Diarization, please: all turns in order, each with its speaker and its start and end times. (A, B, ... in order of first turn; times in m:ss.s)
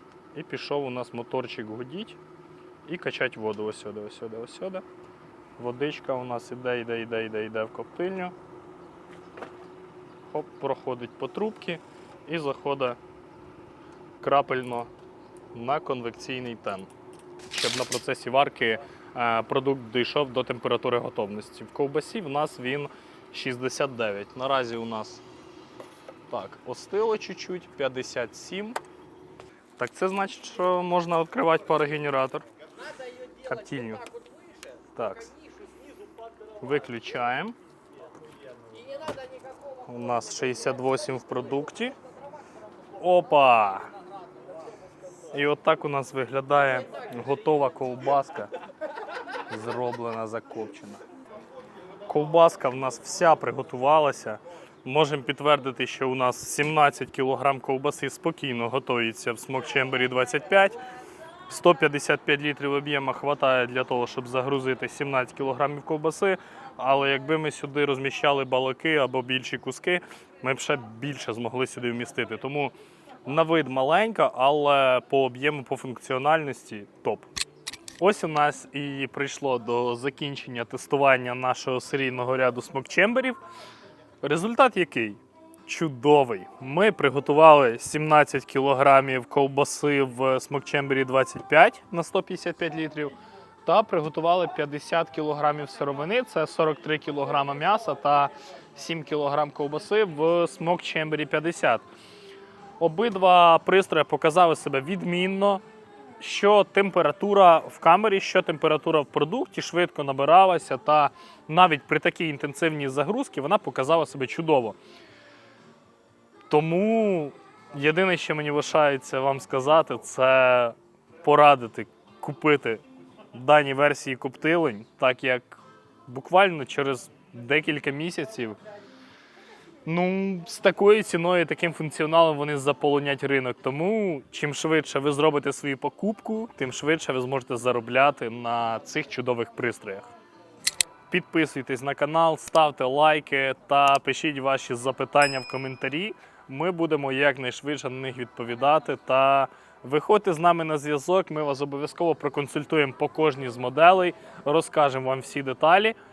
0:00.3-0:02.2 A
0:02.8-0:04.8 A
0:05.6-0:08.3 A
0:10.3-0:13.0 A
0:14.2-0:14.9 A
0:15.5-0:16.9 A
0:17.5-0:25.2 A
0:26.3-0:28.8 A
0:29.8-0:32.4 A
0:33.4-0:34.0 A
0:34.9-0:35.4 A
0:36.6-0:37.5 A
0:39.8-0:41.9 A
0:43.0-0:43.9 A
0:45.3-0:48.5 A
0:49.5-0:51.0 A
0:52.1-1:00.8 A
1:01.5-1:12.7 A
1:13.2-1:17.3 A
1:18.0-1:23.4 A
1:24.2-1:41.8 A
1:42.8-1:45.6 A
1:46.2-1:54.8 A
1:56.5-2:08.6 A
2:09.8-2:20.1 A
2:21.1-2:36.0 A